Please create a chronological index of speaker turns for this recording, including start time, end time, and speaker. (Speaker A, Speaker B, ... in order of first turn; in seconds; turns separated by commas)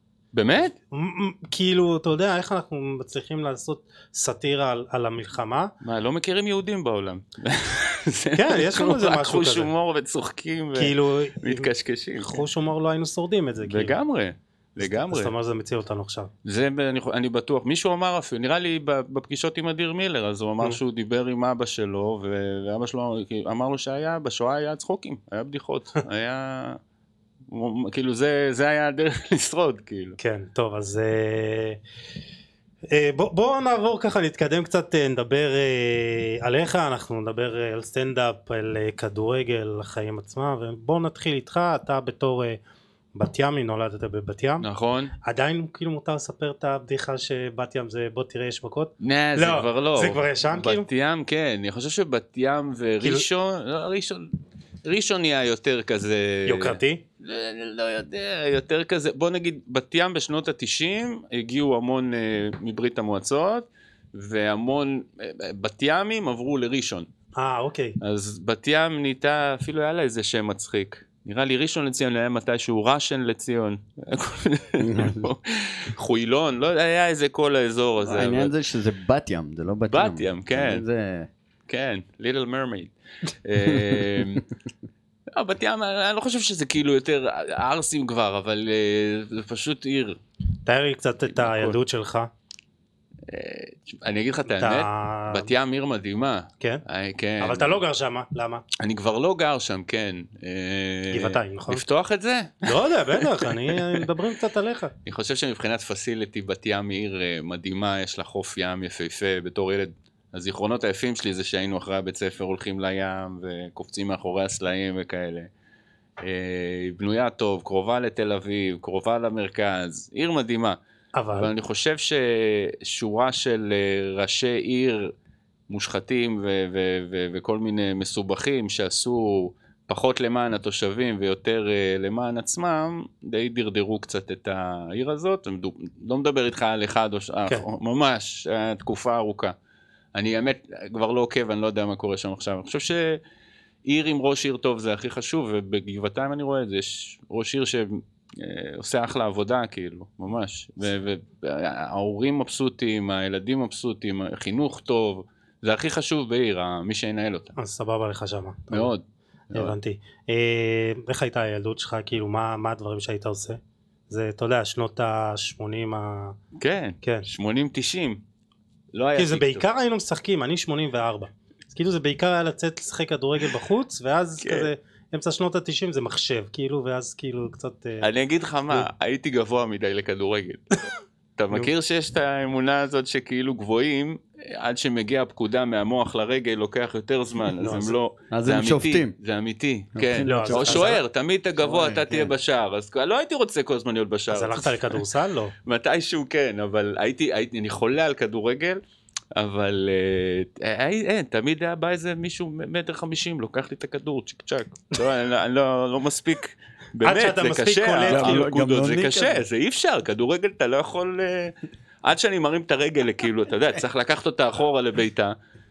Speaker A: 0.3-0.8, Speaker B: 0.9-5.7, Speaker A: 5.8-12.4, Speaker B: 8.4-9.7, Speaker B: 10.8-14.0, Speaker A: 13.7-15.3, Speaker B: 14.8-16.3, Speaker A: 16.4-26.8, Speaker A: 27.5-30.2, Speaker B: 30.2-31.8, Speaker B: 32.9-42.6, Speaker B: 43.1-44.7, Speaker A: 44.6-45.1, Speaker B: 45.2-50.9, Speaker A: 49.0-54.3, Speaker B: 53.0-53.3, Speaker A: 54.9-67.1, Speaker B: 56.5-57.0, Speaker B: 67.4-68.0, Speaker A: 68.0-78.5, Speaker C: 74.8-75.3, Speaker C: 78.1-81.3, Speaker A: 79.9-80.8, Speaker A: 81.7-84.5, Speaker A: 85.3-90.2, Speaker B: 90.7-92.3, Speaker A: 91.3-91.8, Speaker A: 93.3-97.8, Speaker B: 94.6-95.5, Speaker B: 97.4-98.6, Speaker A: 98.8-104.0, Speaker B: 101.1-101.8, Speaker B: 102.7-104.9, Speaker A: 105.0-115.5, Speaker A: 116.2-120.8, Speaker B: 121.2-121.5, Speaker A: 121.3-125.1, Speaker A: 125.7-139.6, Speaker A: 140.1-143.2, Speaker A: 143.8-157.5, Speaker B: 157.6-158.9, Speaker A: 158.7-159.7, Speaker B: 159.5-163.6, Speaker B: 164.1-166.4, Speaker A: 166.6-168.2, Speaker A: 168.9-169.6, Speaker B: 169.2-178.1, Speaker A: 174.4-174.7, Speaker A: 178.0-180.6, Speaker A: 181.4-195.0, Speaker B: 187.6-188.0, Speaker C: 188.3-189.1, Speaker C: 190.0-191.0, Speaker B: 190.2-191.0, Speaker C: 191.6-192.3, Speaker B: 194.3-195.5, Speaker A: 195.7-198.8, Speaker A: 199.3-215.3, Speaker B: 207.0-208.5, Speaker C: 208.1-209.4